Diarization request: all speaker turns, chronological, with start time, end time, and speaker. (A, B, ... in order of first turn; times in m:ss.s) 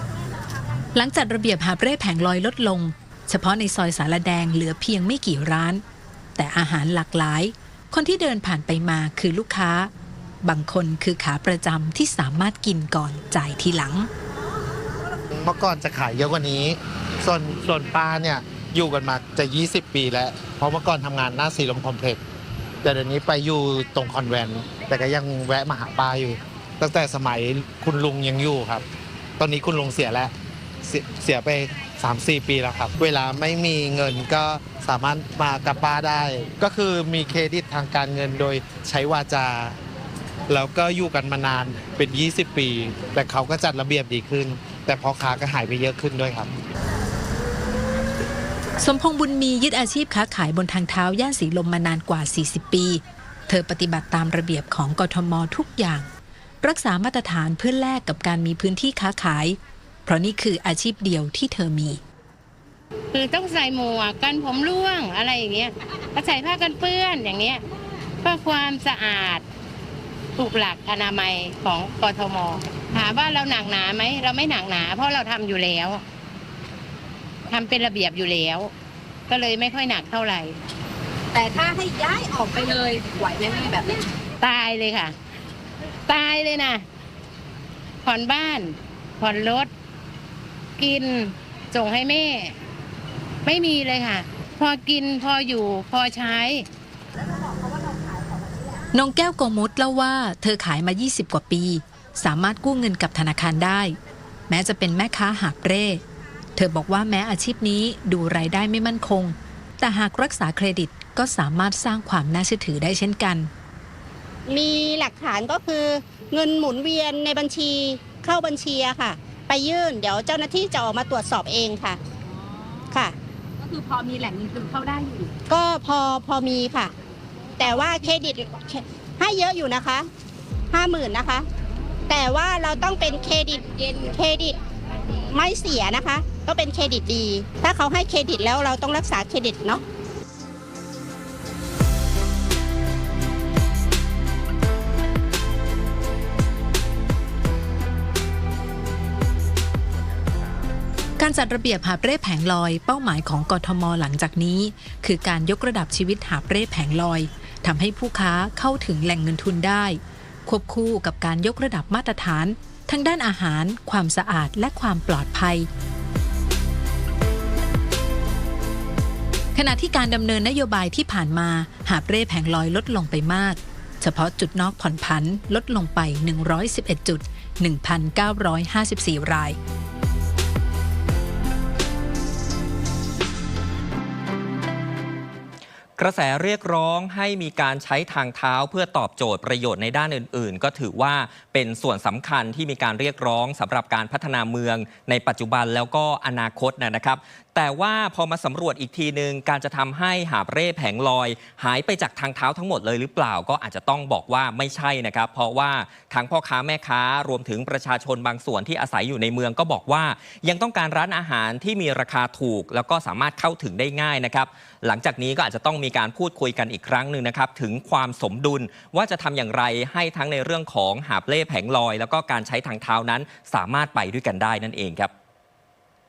0:00.9-0:05.8 A
0:06.4-0:09.9 A
0:10.4-0:14.1 A
0:15.3-0:22.2 B
0:22.8-0:28.8 B
0:29.4-0:30.3 B
0:30.8-0:39.8 B
0:40.5-0:46.5 B
0:48.8-0:56.1 A
0:56.6-1:02.0 A
1:03.1-1:07.6 C
1:08.2-1:09.4 C
1:10.4-1:16.0 C
1:17.5-1:18.7 C
1:19.3-1:20.6 C
1:21.3-1:24.0 D
1:24.4-1:25.1 C
1:26.1-1:26.8 C
1:28.0-1:29.7 C
1:30.8-1:32.6 C
1:33.4-1:36.6 C
1:37.4-1:38.6 D
1:38.9-1:44.0 A
1:44.5-1:46.0 A
1:46.6-1:53.5 A
1:54.5-2:02.0 E
2:02.9-2:03.2 E
2:03.6-2:05.3 D
2:05.5-2:06.9 E
2:07.6-2:10.1 E
2:10.7-2:11.5 E
2:12.1-2:14.6 E
2:15.3-2:19.8 E
2:31.2-2:45.7 A
2:49.6-2:59.6 A
3:06.0-3:45.1 F